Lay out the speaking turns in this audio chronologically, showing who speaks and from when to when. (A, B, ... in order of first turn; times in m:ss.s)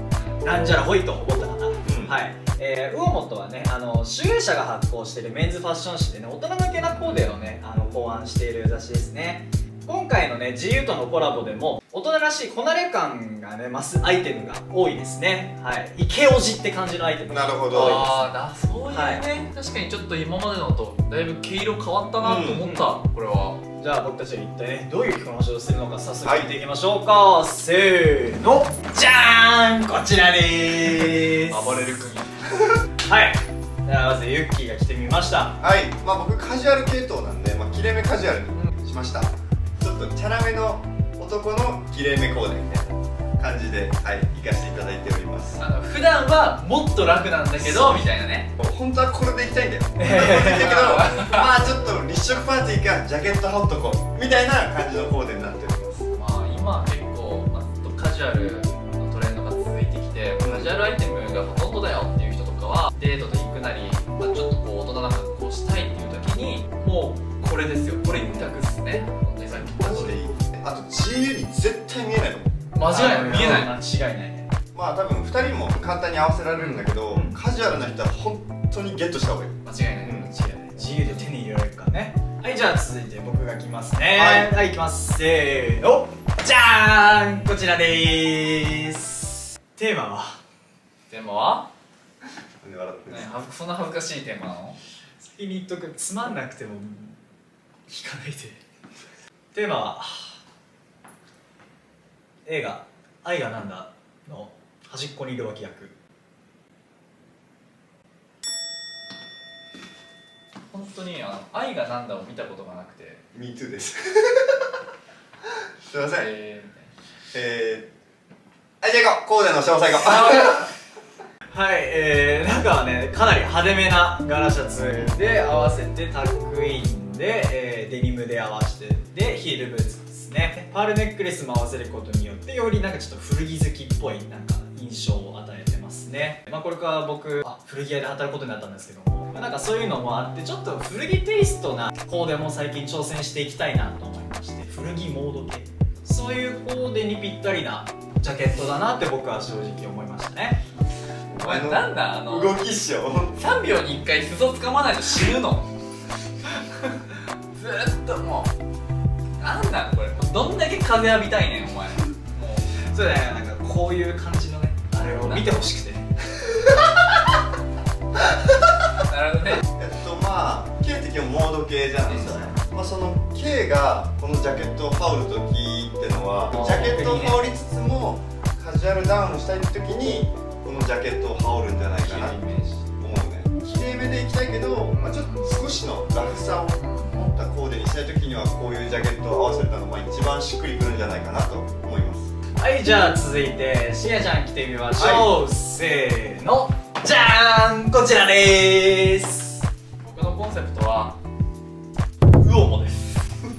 0:00.4-0:18.3 A
0:01.8-0:02.2 B
0:06.8-0:07.4 C
0:17.3-0:18.0 B
0:17.7-0:23.6 C
0:18.9-0:19.2 A
0:22.2-0:22.6 B
0:22.6-0:22.9 A
0:23.8-0:31.9 A
0:26.2-0:26.5 B
0:31.2-0:32.4 C
0:33.0-0:35.6 A
0:35.6-0:45.6 B
0:45.6-0:48.5 C
0:47.6-0:56.0 B
0:50.0-0:50.4 A
0:50.1-0:51.4 C
0:56.1-1:10.2 C
1:00.4-1:00.7 B
1:08.1-1:08.5 B
1:09.5-1:12.6 B
1:12.8-1:13.7 C
1:12.8-1:14.5 A
1:14.7-1:20.3 B
1:16.6-1:16.8 C
1:17.1-1:17.4 A
1:19.6-1:20.3 C
1:20.2-1:30.4 A
1:24.2-1:24.5 B
1:31.1-1:31.7 C
1:32.6-1:33.4 B
1:33.1-1:34.8 C
1:35.2-1:37.2 A
1:37.9-1:38.6 A
1:39.5-1:40.4 A
1:42.5-1:45.9 A
1:50.7-1:53.2 C
1:53.3-1:54.7 B
1:55.9-1:56.3 B
1:56.1-1:56.9 C
1:57.3-1:57.9 B
1:58.8-2:00.7 B
2:01.5-2:30.6 A
2:31.3-2:33.4 B
2:31.4-2:32.6 C
2:33.3-2:35.7 C
2:36.4-2:38.5 C
2:39.4-2:42.8 C
2:42.8-2:46.1 A
2:45.1-2:45.5 C
2:49.1-2:49.6 C
2:49.7-3:02.4 B
2:52.1-2:52.6 C
2:56.5-2:57.4 C
3:02.0-3:02.9 C
3:02.9-3:12.3 B
3:04.9-3:05.6 C
3:06.8-3:07.3 C
3:12.6-3:19.6 A
3:15.0-3:15.3 B
3:20.0-3:21.2 C
3:22.4-3:23.2 C